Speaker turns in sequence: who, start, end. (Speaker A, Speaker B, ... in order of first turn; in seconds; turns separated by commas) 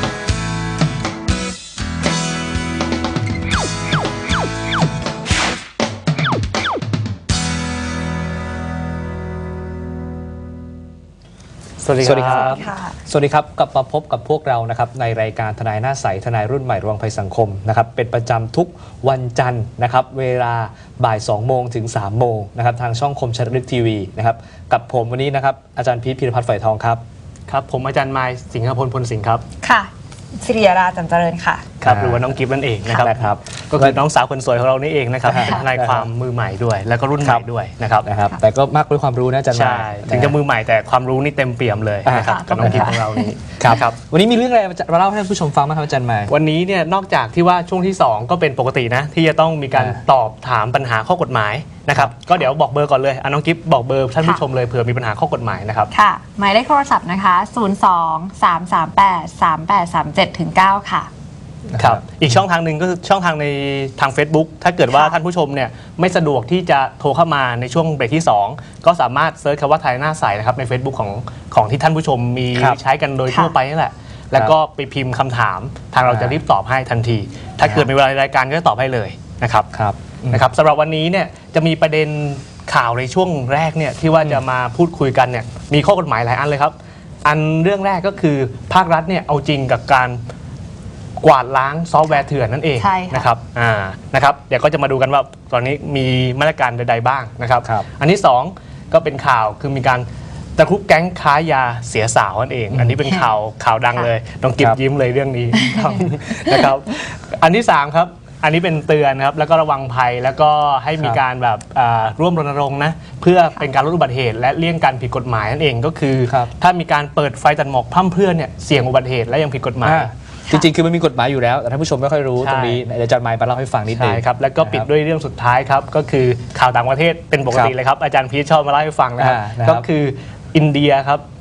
Speaker A: 11.8-12.6, Speaker B: 12.0-27.0, Speaker C: 12.4-13.0, Speaker A: 27.5-29.4, Speaker C: 29.6-31.7, Speaker A: 31.8-38.1, Speaker B: 31.8-32.3, Speaker B: 32.9-34.0, Speaker B: 35.3-36.1, Speaker C: 35.3-35.6, Speaker B: 38.0-40.4, Speaker A: 39.5-44.0, Speaker B: 42.0-42.9, Speaker C: 42.1-43.4, Speaker B: 43.6-46.3, Speaker A: 46.3-55.9, Speaker B: 49.7-50.0, Speaker C: 55.9-61.1, Speaker B: 61.7-62.0, Speaker A: 61.8-79.7, Speaker B: 76.1-76.4, Speaker B: 77.6-77.9, Speaker B: 79.7-80.5, Speaker A: 80.3-90.2, Speaker A: 91.2-120.1, Speaker C: 92.8-93.3, Speaker B: 102.7-103.0, Speaker C: 105.5-106.7, Speaker B: 116.3-116.5, Speaker B: 119.8-124.9, Speaker A: 122.4-122.8, Speaker A: 123.9-131.2, Speaker B: 129.2-129.9